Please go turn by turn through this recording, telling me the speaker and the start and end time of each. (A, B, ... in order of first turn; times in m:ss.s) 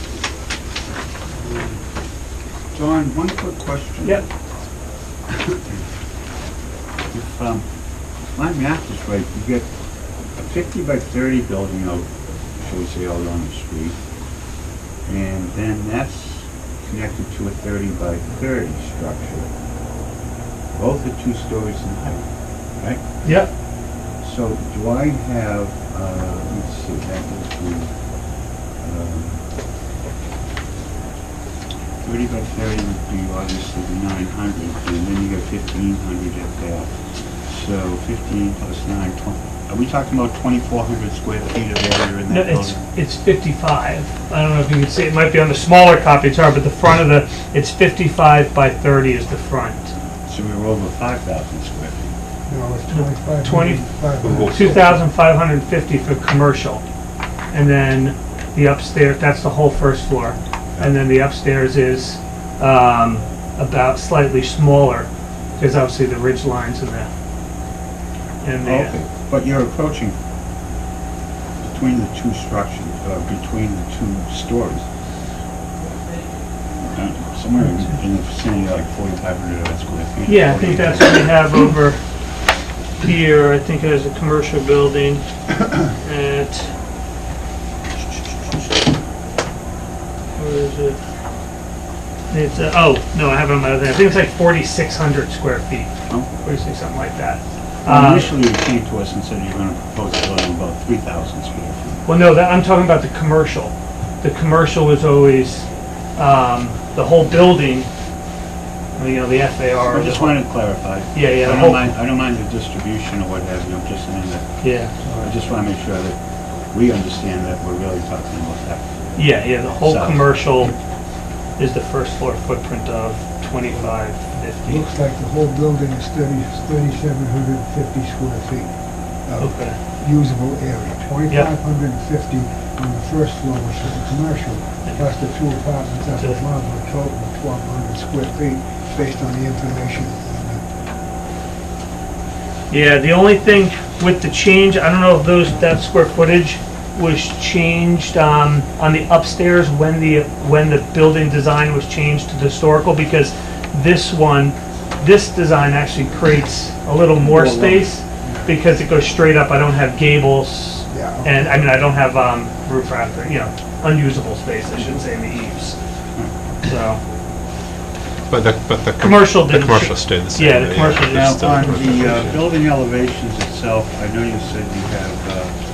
0:01.4-0:01.7 A
0:02.7-0:04.2 B
0:07.1-0:07.6 B
0:08.3-0:09.7 B
0:10.2-0:12.1 B
0:12.6-0:14.0 B
0:15.0-0:19.5 B
0:20.7-0:22.2 B
0:23.2-0:23.5 C
0:24.2-0:27.9 B
0:28.8-0:29.4 B
0:32.0-0:36.9 B
0:37.5-0:42.8 B
0:42.3-0:49.9 C
0:50.3-0:52.1 B
0:52.5-0:55.1 A
0:52.9-0:53.9 C
0:54.2-0:54.6 D
0:54.5-0:56.8 C
0:57.5-1:07.1 C
1:08.4-1:08.9 C
1:08.6-1:10.1 B
1:11.6-1:14.8 B
1:16.8-1:21.3 B
1:20.2-1:22.0 C
1:23.0-1:25.2 C
1:25.8-1:26.7 C
1:28.2-1:28.7 C
1:30.4-1:31.0 C
1:32.3-1:38.3 C
1:37.8-1:42.1 B
1:42.0-1:47.9 C
1:49.0-1:50.4 C
1:49.9-1:54.4 B
1:51.1-1:51.9 C
1:54.6-1:54.9 C
1:55.0-1:55.3 A
1:55.2-1:56.2 B
1:56.7-2:00.4 B
1:59.2-2:00.8 C
2:01.6-2:04.9 C
2:03.7-2:04.0 A
2:04.6-2:20.6 A
2:09.4-2:09.8 C
2:22.7-2:45.8 C
2:37.2-2:37.9 B
2:38.2-2:38.5 A
2:40.9-2:41.6 A
2:46.6-2:47.0 C
2:48.3-2:52.5 D
2:49.0-2:52.3 C
2:51.0-2:55.5 B